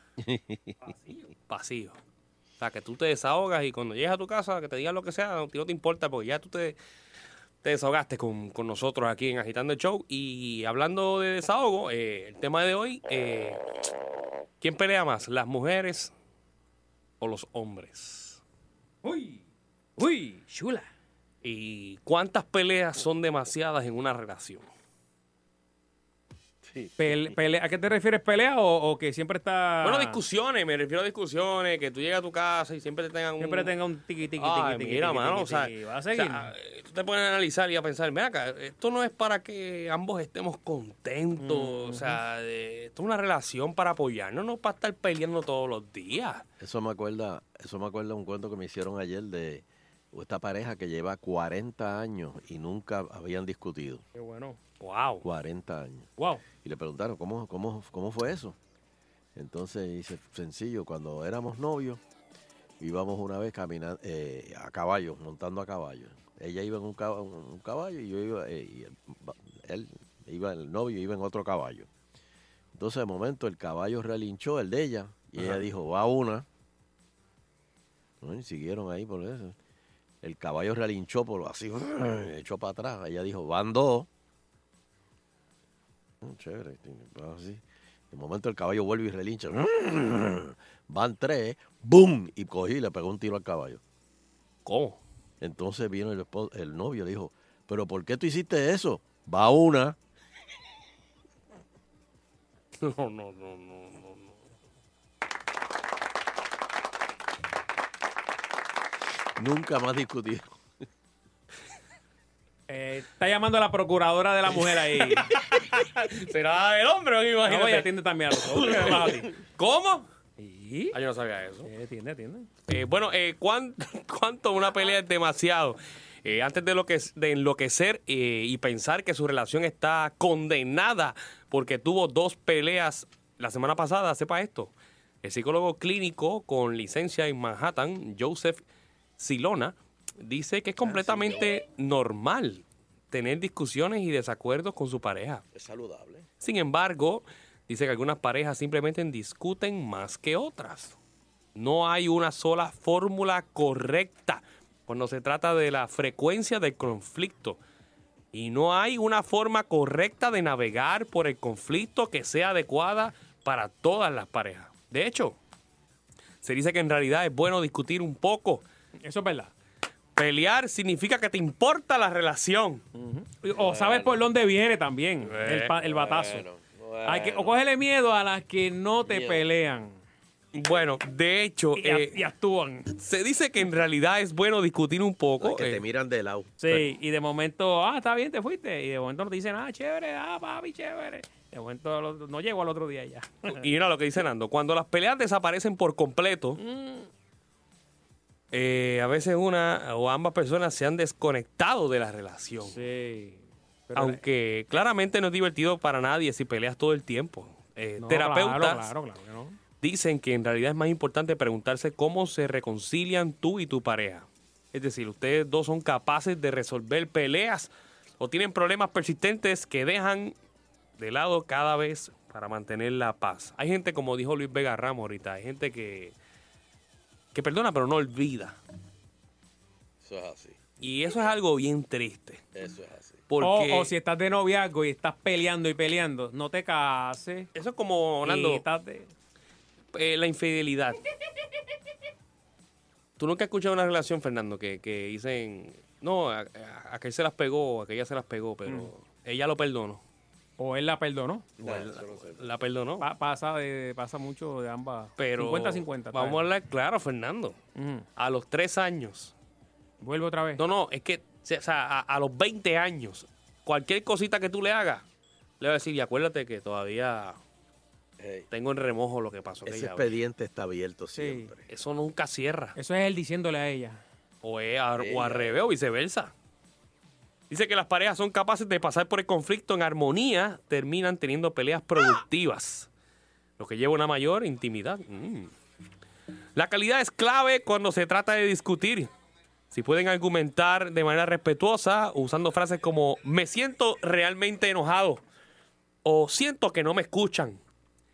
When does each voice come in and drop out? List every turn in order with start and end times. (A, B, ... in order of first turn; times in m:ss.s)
0:00.2-0:00.7 A
0:00.9-0:01.2 B
0:01.5-0:02.0 C
0:02.6-0:06.8 C
0:07.6-0:13.6 C
0:14.6-0:16.1 C
0:17.2-0:18.4 C
0:19.0-0:19.4 B
0:20.0-0:20.9 B
0:21.4-0:24.7 C
0:26.6-0:27.3 A
0:27.0-0:30.2 B
0:29.8-0:33.7 C
0:33.4-0:36.5 B
0:34.4-0:46.4 C
0:41.4-0:42.2 B
0:46.6-0:54.0 A
0:54.1-0:54.6 B
0:54.8-0:55.2 C
0:55.2-0:56.1 A
0:56.2-0:56.4 B
0:56.6-0:58.6 A
0:59.3-1:02.0 A
1:02.8-1:11.9 A
1:12.7-1:16.4 A
1:18.2-1:19.6 A
1:20.2-1:24.1 A
1:26.2-1:33.8 A
1:34.6-1:35.0 C
1:35.4-1:40.0 A
1:42.8-1:44.4 C
1:49.4-1:50.6 A
1:52.7-1:55.3 B
1:55.1-1:57.9 C
1:57.4-1:59.3 B
1:58.5-2:00.1 C
2:00.4-2:01.0 B
2:00.9-2:01.7 C
2:01.6-2:02.5 B
2:02.7-2:18.6 C
2:19.2-2:25.4 C
2:20.8-2:21.6 A
2:25.5-2:26.3 A
2:26.4-2:31.0 C
2:31.5-2:37.6 C
2:38.3-2:45.4 C
2:46.4-2:48.6 C
2:49.0-2:49.5 B
2:50.2-2:52.8 C
2:52.9-2:56.4 B
2:53.5-2:54.2 A
2:55.2-2:55.7 C
2:55.8-2:57.5 A
2:57.0-3:00.0 B
2:59.0-2:59.4 A
3:00.5-3:02.2 C
3:01.8-3:02.9 B
3:02.9-3:05.8 C
3:05.4-3:06.8 A
3:06.6-3:13.6 B
3:13.5-3:16.6 C
3:16.6-3:17.1 B
3:18.5-3:22.8 C
3:22.7-3:24.2 B
3:24.0-3:28.9 C
3:28.0-3:29.6 B
3:29.8-3:40.3 C
3:41.0-3:46.1 C
3:47.3-3:48.6 C
3:50.0-3:50.6 A
3:50.8-3:52.4 C
3:52.5-3:53.2 A
3:53.3-3:53.9 C
3:53.4-3:57.5 B
3:57.5-3:58.6 C
3:58.2-3:59.1 B
3:59.9-4:01.0 C
4:03.2-4:10.0 C
4:10.6-4:11.5 B
4:11.6-4:12.5 A
4:11.6-4:13.0 C
4:13.0-4:16.4 B
4:15.2-4:17.6 C
4:17.8-4:18.1 B
4:18.2-4:19.3 C
4:20.0-4:20.6 B
4:20.6-4:25.0 C
4:25.6-4:27.4 C
4:28.2-4:28.5 A
4:28.5-4:30.1 C
4:29.6-4:31.6 A
4:31.2-4:31.5 B
4:31.7-4:32.8 C
4:32.8-4:34.0 B
4:34.4-4:36.3 C
4:35.0-4:35.6 A
4:37.5-4:42.9 C
4:43.6-4:45.5 C
4:46.5-4:49.1 C
4:49.7-4:55.2 C
4:56.0-4:57.6 C